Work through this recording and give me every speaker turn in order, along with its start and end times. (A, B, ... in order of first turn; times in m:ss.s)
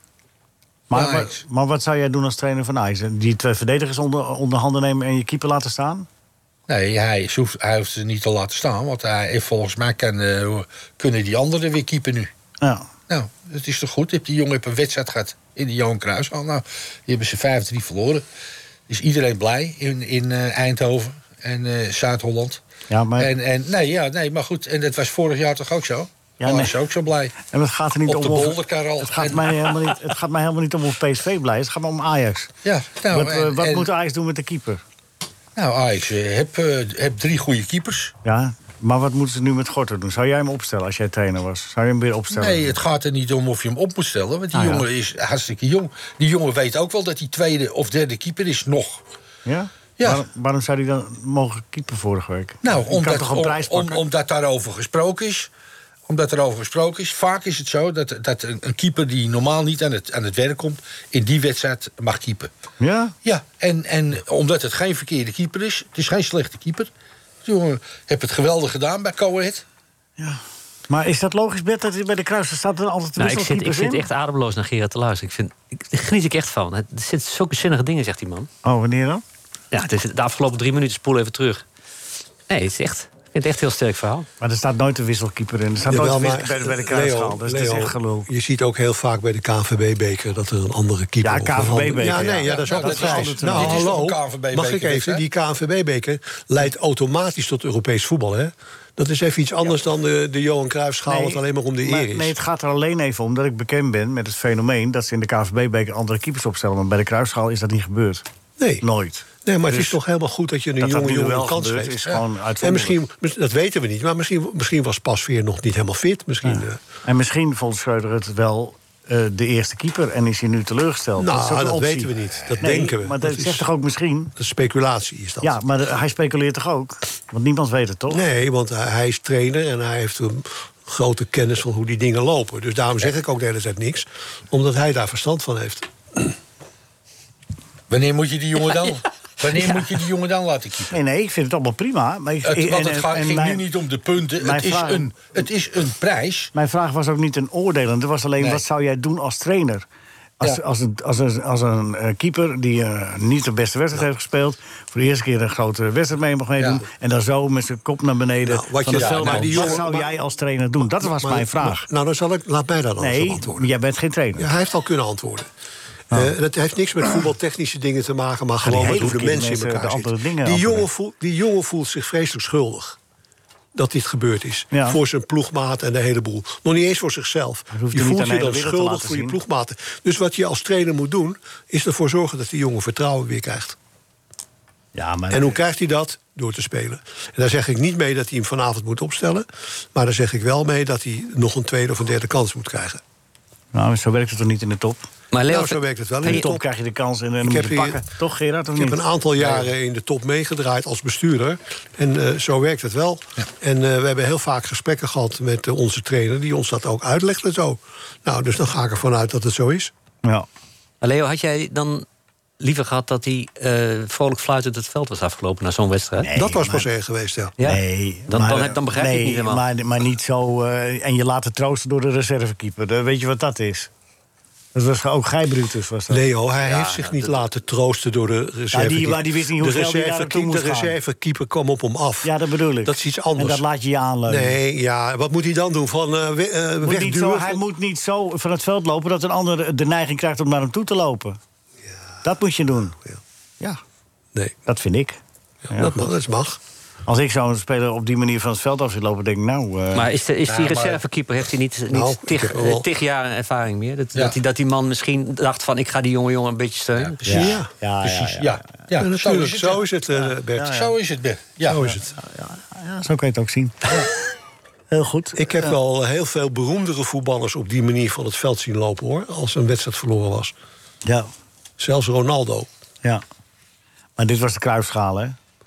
0:00.9-0:06.1 A
0:00.9-0:01.4 B
0:06.7-0:12.3 B
0:12.6-0:12.9 A
0:13.1-0:18.2 B
0:18.9-0:22.6 B
0:22.9-0:23.3 A
0:23.2-0:27.4 B
0:26.4-0:26.7 A
0:27.4-0:32.5 A
0:28.0-0:30.0 B
0:32.6-0:33.9 B
0:33.1-0:34.8 A
0:35.6-0:38.1 B
0:38.2-0:42.8 A
0:42.3-0:49.0 B
0:44.5-0:44.8 A
0:49.4-0:54.0 A
0:50.0-0:50.2 B
0:52.6-0:55.5 B
0:56.1-1:02.5 B
1:02.8-1:03.1 A
1:03.2-1:06.9 B
1:07.4-1:09.6 B
1:10.2-1:14.0 A
1:13.2-1:18.5 C
1:18.6-1:19.2 A
1:19.7-1:21.6 C
1:22.5-1:24.3 C
1:24.4-1:28.3 A
1:25.8-1:42.3 D
1:31.2-1:33.9 A
1:32.2-1:35.2 B
1:41.1-1:48.2 A
1:48.6-1:48.8 D
1:48.8-1:50.0 A
1:49.4-1:52.1 D
1:50.8-1:53.0 A
1:52.6-1:56.8 D
1:56.4-2:04.3 A
2:01.2-2:03.6 D
2:04.4-2:05.6 D
2:05.4-2:08.2 A
2:08.1-2:16.3 D
2:17.9-2:20.9 B
2:20.9-2:23.6 A
2:22.4-2:26.5 B
2:24.4-2:25.1 A
2:26.5-2:29.8 A
2:30.4-2:41.8 A
2:38.4-2:40.1 D
2:38.9-2:39.9 B
2:41.0-2:43.7 D
2:43.0-2:44.5 A
2:44.4-2:45.5 D
2:46.1-2:53.0 D
2:48.6-2:50.9 A
2:53.7-3:03.8 D
2:54.7-2:55.0 A
2:57.7-2:59.4 A
3:04.9-3:05.6 A
3:05.3-3:13.0 D
3:13.7-3:15.1 A
3:15.3-3:16.5 C
3:15.5-3:16.6 D
3:16.2-3:19.0 A
3:17.4-3:18.0 D
3:18.7-3:29.9 D
3:31.0-3:32.0 C
3:32.6-3:36.3 C
3:36.2-3:36.9 A
3:36.3-3:37.5 D
3:37.6-3:39.6 C
3:37.6-3:43.9 A
3:44.7-3:46.2 A
3:46.1-3:53.6 D
3:46.6-3:47.4 C
3:48.7-3:51.0 A
3:52.2-3:54.6 A
3:54.3-3:57.6 D
3:56.8-4:01.4 A
4:02.2-4:03.0 A
4:04.6-4:06.0 A
4:05.7-4:06.6 D
4:07.0-4:10.1 A
4:09.9-4:17.2 C
4:10.4-4:11.0 B
4:11.9-4:12.8 D
4:16.9-4:19.8 B
4:17.2-4:18.7 A
4:17.3-4:17.7 D
4:19.0-4:20.8 D
4:20.5-4:20.9 A
4:20.7-4:21.8 B
4:21.6-4:22.1 D
4:21.8-4:24.0 A
4:24.9-4:25.7 A
4:25.4-4:30.5 D
4:31.8-4:32.7 D
4:34.2-4:35.4 A